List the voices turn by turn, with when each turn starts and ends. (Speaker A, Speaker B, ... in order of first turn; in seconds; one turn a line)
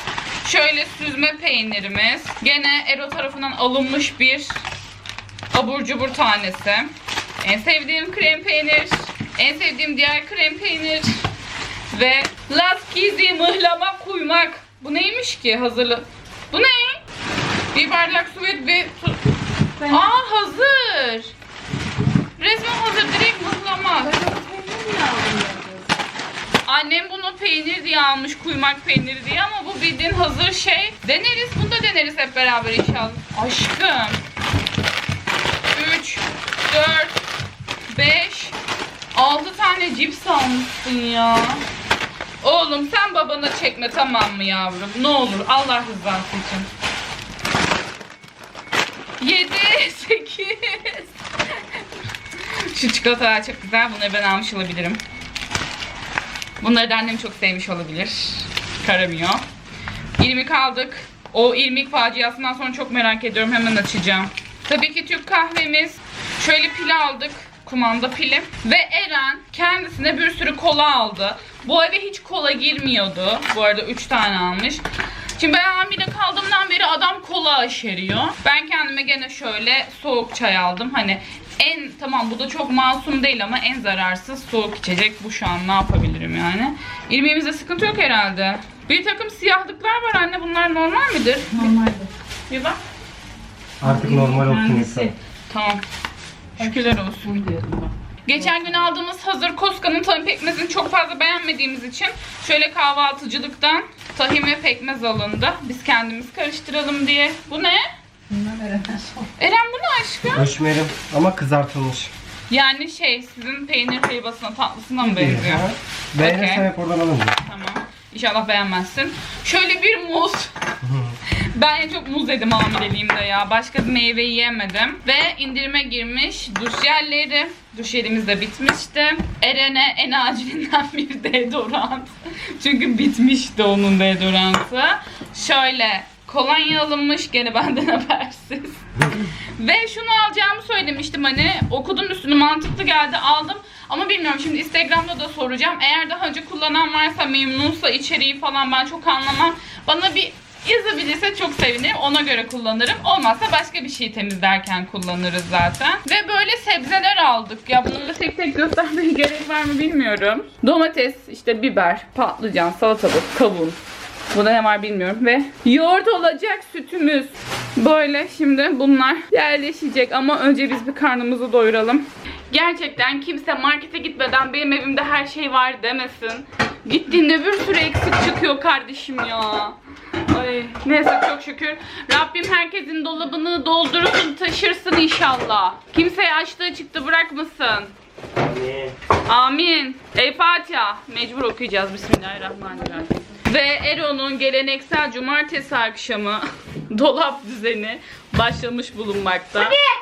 Speaker A: 0.4-4.6
Speaker A: 5.5-11.2
Speaker A: 11.9-17.0
Speaker A: 17.7-19.2
Speaker B: 19.8-20.1
Speaker A: 19.9-21.3
Speaker A: 22.4-24.1
Speaker B: 24.0-25.9
Speaker A: 26.6-34.2
Speaker A: 35.7-37.2
Speaker A: 37.9-38.5
Speaker A: 39.1-41.6
Speaker A: 42.4-46.7
Speaker A: 49.2-51.6
Speaker A: 52.3-55.0
Speaker A: 56.6-59.4
Speaker A: 60.2-74.8
Speaker A: 75.3-91.7
Speaker B: 91.5-92.1
Speaker A: 92.5-92.8
Speaker C: 93.8-95.1
Speaker B: 93.8-95.1
Speaker A: 95.5-95.8
Speaker A: 96.6-97.3
Speaker B: 96.6-97.9
Speaker A: 98.2-107.8
Speaker B: 108.3-109.3
Speaker A: 109.4-110.5
Speaker C: 110.3-112.1
Speaker A: 112.5-115.6
Speaker C: 115.0-117.4
Speaker A: 116.2-116.7
Speaker A: 117.4-120.5
Speaker C: 120.8-121.2
Speaker A: 121.5-163.8
Speaker A: 164.3-179.8
Speaker A: 180.3-187.9
Speaker C: 188.3-188.9
Speaker A: 189.2-199.8